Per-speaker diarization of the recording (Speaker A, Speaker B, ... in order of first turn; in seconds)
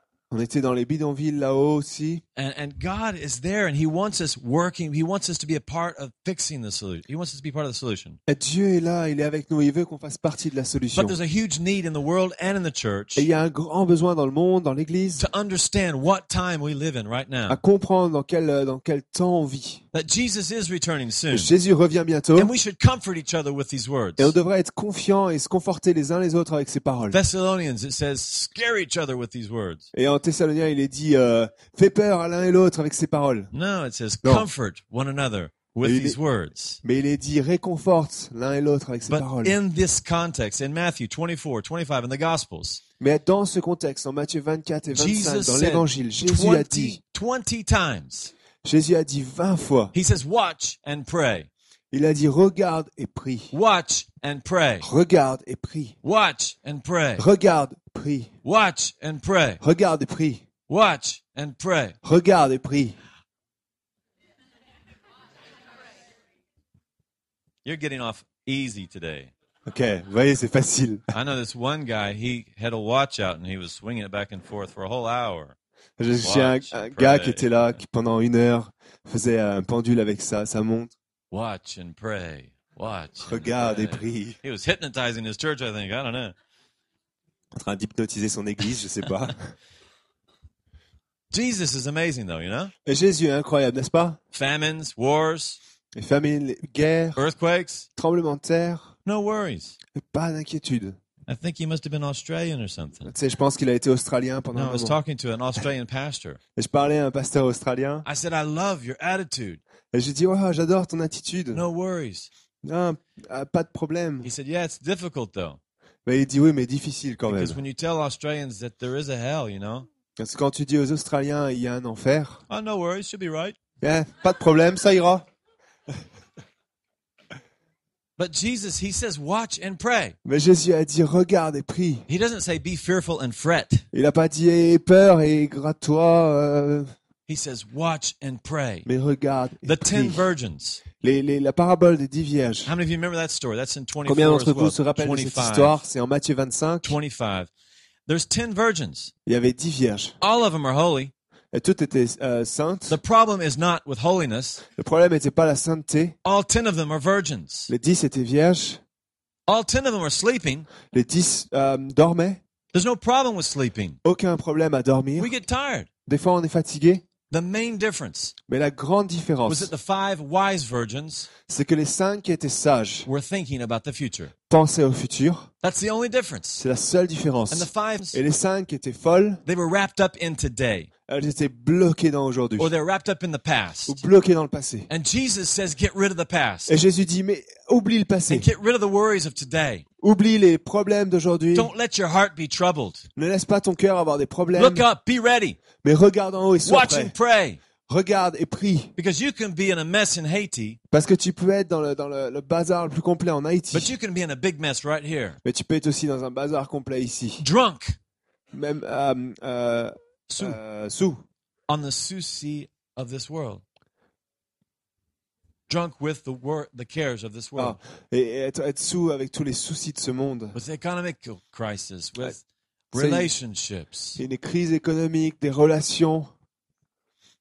Speaker A: 0.3-2.2, 8.3-11.2, 13.2-15.2, 17.5-19.8, 21.3-22.5, 24.2-27.2, 29.9-33.5, 35.8-36.2, 36.8-39.6, 43.0-47.0, 48.6-49.9, 51.9-53.5, 54.8-56.0, 57.2-58.3, 59.6-60.4, 62.0-63.0, 69.7-71.1, 76.0-80.9, 83.2-84.4, 87.5-89.5, 92.8-94.2, 95.9-97.2, 98.0-98.9, 99.9-101.0, 103.0-105.0, 106.5-108.0, 109.9-111.6, 112.6-114.3, 116.0-117.6, 120.2-122.4, 123.8-125.2, 130.2-132.1, 133.9-136.9, 138.8-140.3, 141.0-142.7, 144.1-147.0, 149.2-150.2, 151.5-153.0, 154.7-156.1, 157.7-158.8, 160.9-162.4, 164.0-165.3, 166.1-167.0, 168.5-169.7, 171.5-173.1, 174.5-175.5, 176.6-179.4, 181.1-182.7, 183.9-184.9, 186.7-188.5, 190.0-191.7, 193.2-194.8, 195.8-197.1, 197.9-198.9, 200.9-203.9, 205.4-207.4, 208.5-211.2, 217.6-220.6, 222.9-223.3, 224.2-226.3
Speaker B: 2.4-8.2, 10.9-13.3, 15.2-17.6, 19.9-21.5, 22.4-24.3, 27.1-29.9, 33.5-36.8, 39.1-42.8, 44.9-48.3, 49.9-51.5, 53.5-54.9, 56.0-57.2, 58.4-59.6, 60.7-62.0, 67.6-69.3, 71.1-75.5, 76.2-77.6, 81.3-86.3, 91.3-92.7, 94.3-95.6, 97.2-97.9, 99.0-99.8, 101.3-103.1, 104.5-106.4, 108.0-109.6, 111.5-112.3, 114.2-115.6, 117.3-119.9, 122.5-123.5, 128.2-130.2, 132.1-133.8, 137.3-138.9, 139.6-140.8, 142.6-145.8, 146.8-147.5, 148.1-149.1, 150.2-151.1, 152.9-154.6, 156.2-157.7, 159.5-160.7, 162.7-164.0, 165.2-165.9, 167.3-168.3, 169.5-171.3, 173.0-174.3, 175.6-176.6, 177.5-178.2, 179.4-180.9, 182.6-184.0, 184.9-186.7, 188.3-189.8, 191.5-193.1, 194.5-195.6, 196.6-197.6, 199.0-200.8, 203.7-205.4, 207.4-207.9, 210.3-210.6, 211.7-213.6, 215.7-217.8, 220.5-224.2